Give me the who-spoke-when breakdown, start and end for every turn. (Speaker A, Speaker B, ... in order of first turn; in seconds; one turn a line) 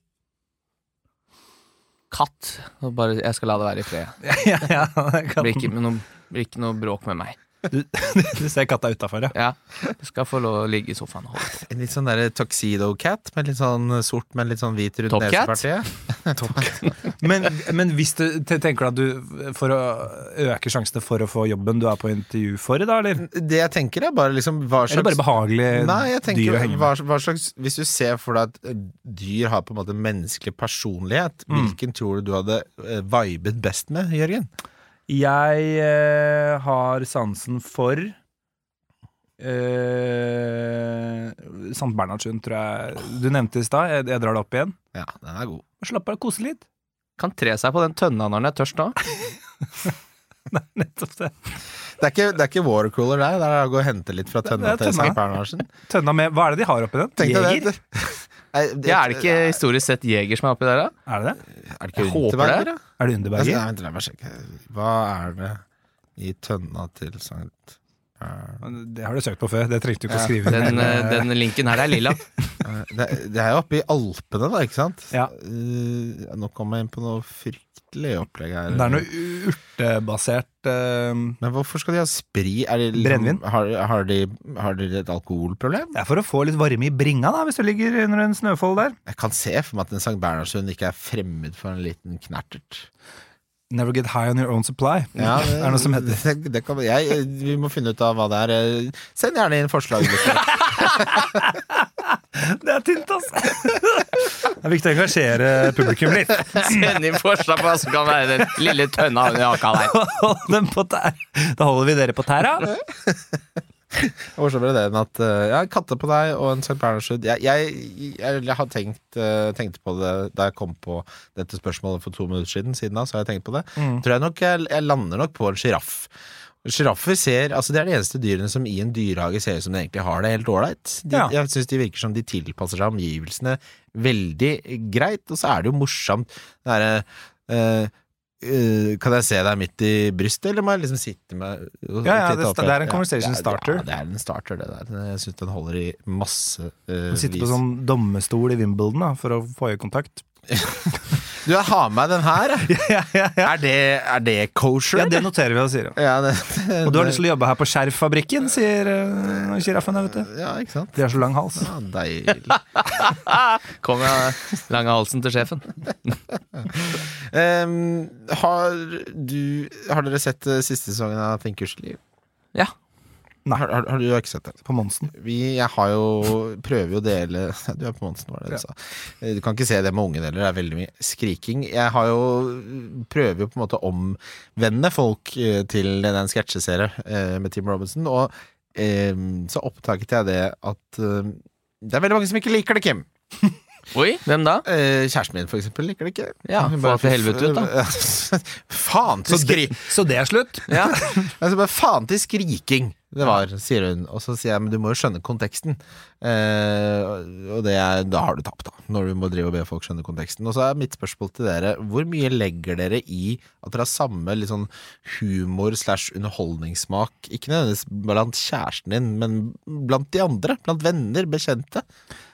Speaker A: 2.1-4.2
Speaker B: 4.2-5.7
Speaker A: 5.4-7.4
Speaker B: 7.7-9.3
Speaker A: 9.3-11.6
Speaker C: 11.5-16.8
Speaker A: 15.1-15.6
Speaker B: 16.4-23.2
Speaker C: 23.2-34.5
Speaker B: 24.9-26.9
Speaker B: 31.5-31.8
Speaker B: 35.1-38.1
Speaker B: 39.4-44.8
Speaker C: 44.9-45.6
Speaker B: 45.8-46.6
Speaker A: 47.2-49.0
Speaker B: 50.5-51.4
Speaker C: 52.0-55.7
Speaker B: 54.4-57.7
Speaker C: 57.2-59.6
Speaker A: 58.8-60.9
Speaker B: 61.1-61.4
Speaker C: 61.5-62.8
Speaker A: 62.0-62.7
Speaker B: 63.0-63.6
Speaker C: 63.3-65.6
Speaker C: 66.2-68.6
Speaker B: 68.6-72.2
Speaker A: 70.5-72.2
Speaker C: 72.6-79.0
Speaker B: 78.7-81.4
Speaker C: 81.4-85.9
Speaker B: 83.0-83.4
Speaker B: 85.9-88.9
Speaker C: 89.0-92.9
Speaker B: 93.7-96.2
Speaker C: 95.2-101.2
Speaker B: 100.3-106.9
Speaker A: 106.5-109.9
Speaker B: 109.7-112.7
Speaker C: 112.7-113.4
Speaker C: 113.9-126.1
Speaker B: 123.8-124.0
Speaker C: 126.6-147.6
Speaker B: 142.0-143.8
Speaker B: 147.1-150.2
Speaker C: 151.4-152.7
Speaker B: 152.7-153.5
Speaker C: 153.4-155.2
Speaker B: 154.9-156.0
Speaker C: 155.9-157.2
Speaker B: 156.8-160.3
Speaker C: 160.2-161.0
Speaker B: 160.9-161.7
Speaker C: 161.6-162.6
Speaker A: 162.5-165.7
Speaker C: 166.6-172.0
Speaker C: 173.5-174.6
Speaker B: 174.7-175.1
Speaker C: 175.1-193.1
Speaker A: 193.9-194.7
Speaker C: 194.6-199.8
Speaker A: 196.4-197.7
Speaker B: 199.3-201.3
Speaker A: 200.7-201.0
Speaker C: 200.9-221.8